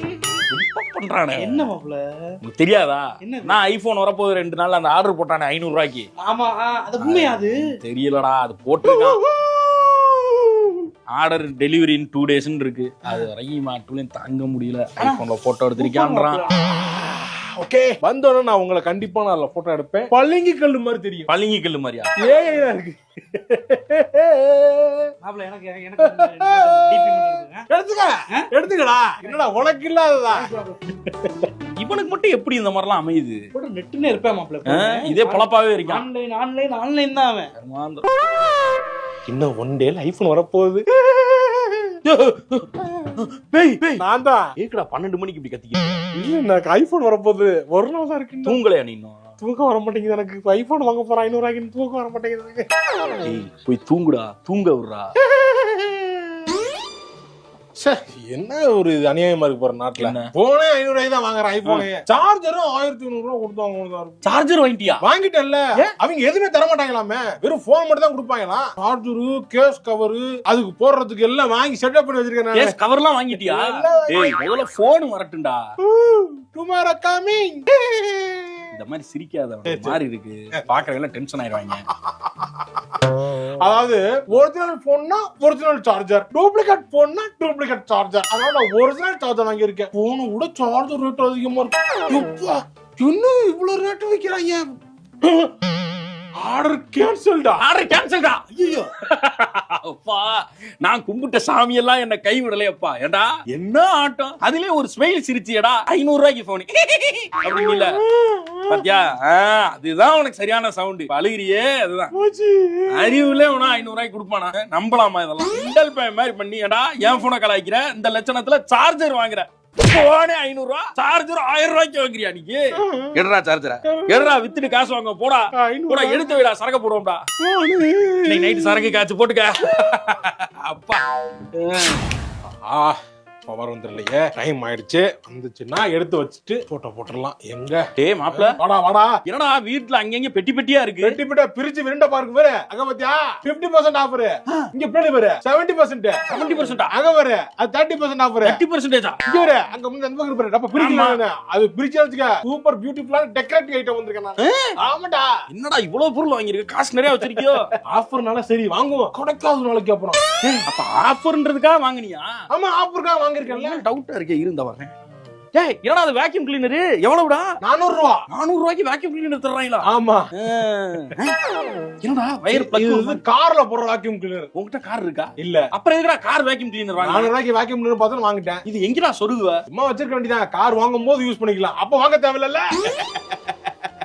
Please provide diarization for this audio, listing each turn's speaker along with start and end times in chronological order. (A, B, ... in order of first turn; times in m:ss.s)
0:00.4-0:01.6 A
0:01.3-0:02.0 B
0:02.4-0:06.1 A
0:03.2-0:03.6 B
0:06.2-0:07.8 B
0:07.0-0:09.2 A
0:08.8-0:10.8 C
0:11.1-0:16.4 A
0:15.0-0:15.3 B
0:15.8-0:16.6 B
0:16.6-0:21.3 C
0:21.3-0:22.1 A
0:22.2-0:25.1 C
0:25.2-0:27.6 B
0:26.0-0:30.5 C
0:30.2-0:31.0 B
0:31.1-0:31.5 C
0:31.8-0:33.4 A
0:33.5-0:37.5 B
0:34.6-0:36.0 A
0:37.6-0:38.0 A
0:39.3-0:41.9 C
0:42.0-0:44.0 A
0:44.0-0:44.4 C
0:44.6-0:45.9 A
0:46.1-0:48.6 C
0:48.4-0:49.2 A
0:49.4-0:52.6 C
0:53.2-0:55.0 A
0:55.3-0:56.5 C
0:57.8-1:04.2 C
1:00.0-1:00.3 A
1:04.2-1:05.0 A
1:05.0-1:12.8 C
1:12.5-1:15.6 A
1:13.3-1:14.4 C
1:15.8-1:18.7 C
1:18.7-1:21.8 A
1:19.6-1:20.0 C
1:21.9-1:35.5 C
1:36.4-1:37.6 C
1:37.6-1:48.0 A
1:47.5-1:48.9 C
1:48.7-1:52.1 A
1:52.1-1:53.4 C
1:52.9-2:07.2 A
2:02.8-2:03.2 C
2:03.8-2:04.5 C
2:05.6-2:06.4 C
2:07.4-2:09.0 C
2:08.3-2:11.0 A
2:11.5-2:12.0 A
2:12.6-2:19.1 C
2:18.0-2:18.6 A
2:19.2-2:21.2 A
2:21.0-2:28.6 C
2:26.3-2:26.9 A
2:28.4-2:29.2 A
2:29.2-2:35.3 C
2:30.7-2:31.2 A
2:34.4-2:34.7 A
2:35.5-2:37.7 A
2:37.2-2:40.6 C
2:40.6-2:42.3 A
2:42.5-2:43.8 C
2:43.5-2:44.9 A
2:45.5-2:47.5 A
2:47.6-2:48.2 C
2:48.3-2:51.3 A
2:49.8-2:50.3 C
2:52.0-2:53.2 A
2:52.5-2:54.5 C
2:54.5-2:57.3 A
2:55.4-2:55.6 C
2:57.0-2:58.6 C
2:58.6-2:59.6 A
2:59.7-3:03.2 C